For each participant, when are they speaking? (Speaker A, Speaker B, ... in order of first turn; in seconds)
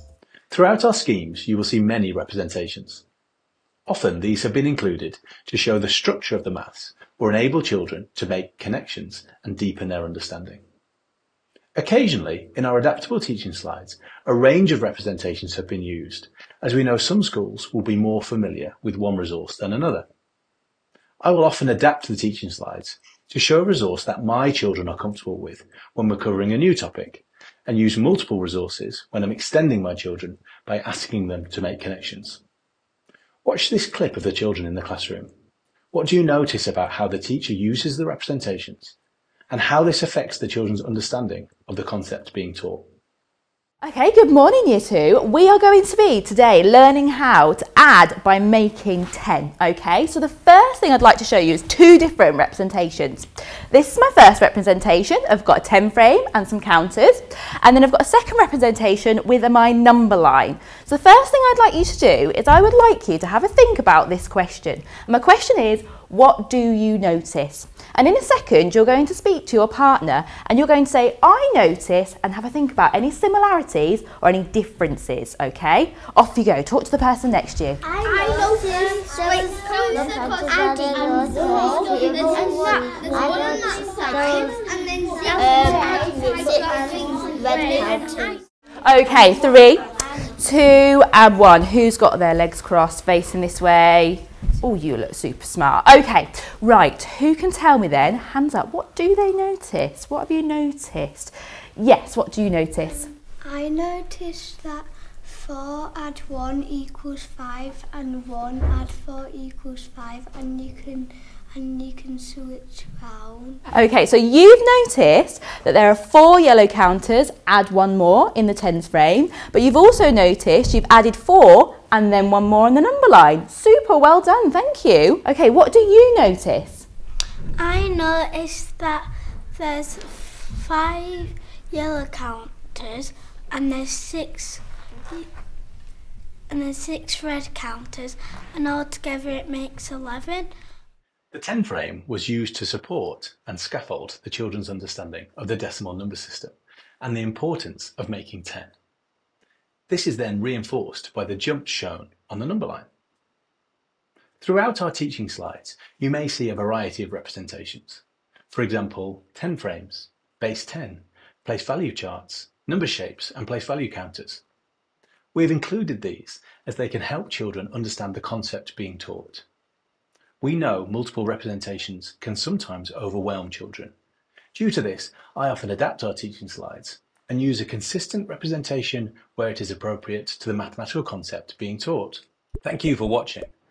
Speaker A: 0.5-3.0, 3.9-10.6, 11.8-20.1, 21.2-32.4, 33.4-35.3, 35.9-39.0, 39.5-42.9, 141.3-148.7, 149.9-152.9, 154.4-164.4, 165.3-169.4, 170.4-173.9, 174.5-183.5
Speaker B: 43.8-77.8, 88.8-103.1, 113.7-126.9
Speaker C: 77.9-79.9, 81.2-82.9, 85.2-86.3, 87.6-88.0, 103.4-113.6, 127.6-135.3, 136.5-140.5